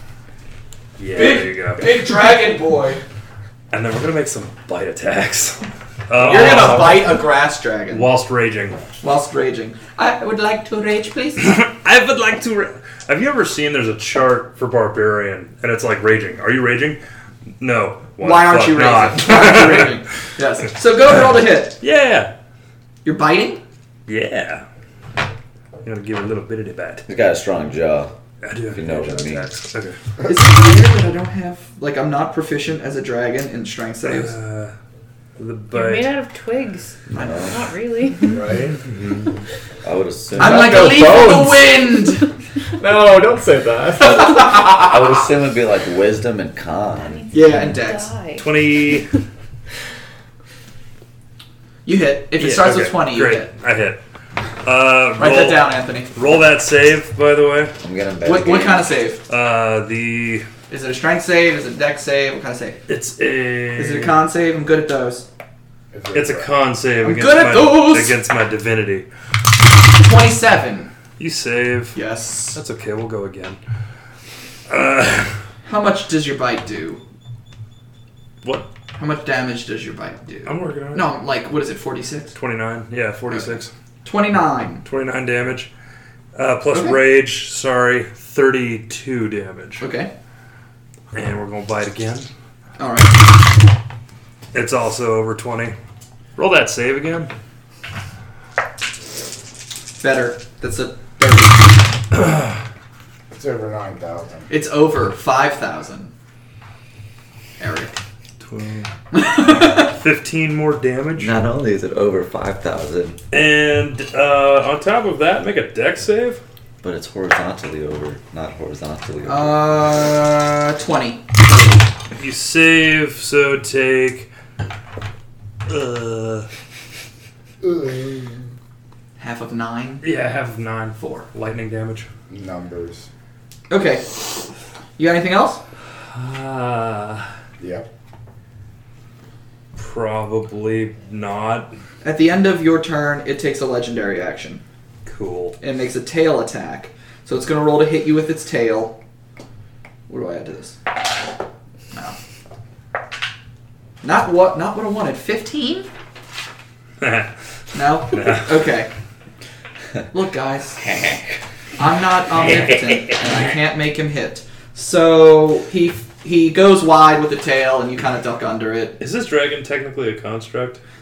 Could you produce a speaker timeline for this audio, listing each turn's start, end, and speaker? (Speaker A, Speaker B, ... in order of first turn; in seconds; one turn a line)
Speaker A: 1.0-1.8
Speaker B: 1.1-3.0
Speaker A: 3.7-7.0
Speaker C: 6.2-7.2
Speaker B: 6.2-8.1
Speaker A: 7.9-8.8
Speaker B: 9.0-11.6
Speaker A: 11.4-17.0
Speaker A: 17.6-19.9
Speaker B: 18.2-21.8
Speaker A: 21.8-22.3
Speaker B: 23.0-23.6
Speaker A: 24.1-24.6
Speaker A: 25.8-27.1
Speaker D: 27.1-28.1
Speaker A: 28.4-30.0
Speaker D: 28.7-29.5
Speaker B: 30.2-34.4
Speaker A: 34.0-34.7
Speaker A: 35.4-36.1
Speaker E: 35.7-38.5
Speaker D: 37.1-37.6
Speaker F: 38.3-38.8
Speaker A: 38.9-39.2
Speaker D: 39.8-41.1
Speaker C: 40.4-41.9
Speaker B: 40.4-42.3
Speaker C: 42.8-44.5
Speaker B: 44.0-44.9
Speaker D: 44.8-47.2
Speaker E: 47.0-49.0
Speaker B: 47.3-48.1
Speaker A: 48.4-49.1
Speaker B: 51.9-53.5
Speaker A: 52.4-54.0
Speaker A: 54.6-57.7
Speaker B: 55.2-56.1
Speaker D: 57.8-58.9
Speaker B: 58.2-59.2
Speaker A: 59.3-60.5
Speaker B: 60.7-62.8
Speaker A: 62.9-64.2
Speaker B: 63.8-65.2
Speaker F: 65.9-66.5
Speaker A: 66.1-69.1
Speaker B: 67.0-68.2
Speaker B: 70.0-70.9
Speaker A: 71.2-72.0
Speaker B: 71.9-72.6
Speaker A: 72.5-73.6
Speaker A: 74.7-75.3
Speaker B: 75.7-77.0
Speaker A: 78.4-78.7
Speaker B: 79.0-82.4
Speaker A: 80.5-81.1
Speaker A: 82.3-83.7
Speaker B: 83.3-84.8
Speaker A: 84.8-85.7
Speaker A: 86.3-89.8
Speaker B: 86.7-87.0
Speaker B: 89.8-90.1
Speaker A: 91.1-92.3
Speaker B: 92.8-93.2
Speaker A: 94.5-95.8
Speaker A: 96.3-97.3
Speaker B: 100.0-101.8
Speaker F: 103.3-104.5
Speaker B: 104.5-106.1
Speaker B: 107.6-108.0
Speaker A: 108.4-108.9
Speaker B: 109.1-109.9
Speaker A: 109.8-111.4
Speaker D: 111.2-113.2
Speaker A: 113.3-116.4
Speaker D: 116.8-119.8
Speaker B: 119.2-121.4
Speaker A: 122.1-124.3
Speaker A: 125.7-126.5
Speaker F: 127.6-128.4
Speaker B: 129.2-130.0
Speaker A: 130.0-132.1
Speaker F: 132.3-133.1
Speaker B: 133.7-134.4
Speaker B: 135.0-135.6
Speaker A: 136.1-137.3
Speaker F: 137.6-137.8
Speaker A: 139.8-141.7
Speaker B: 142.0-144.6
Speaker A: 145.1-145.6
Speaker B: 145.6-149.0
Speaker B: 150.1-150.8
Speaker B: 151.9-152.2
Speaker B: 154.0-155.9
Speaker A: 157.0-157.3
Speaker B: 157.7-158.9
Speaker A: 158.1-158.5
Speaker B: 160.1-161.0
Speaker D: 160.8-161.2
Speaker B: 161.8-169.0
Speaker A: 169.0-170.8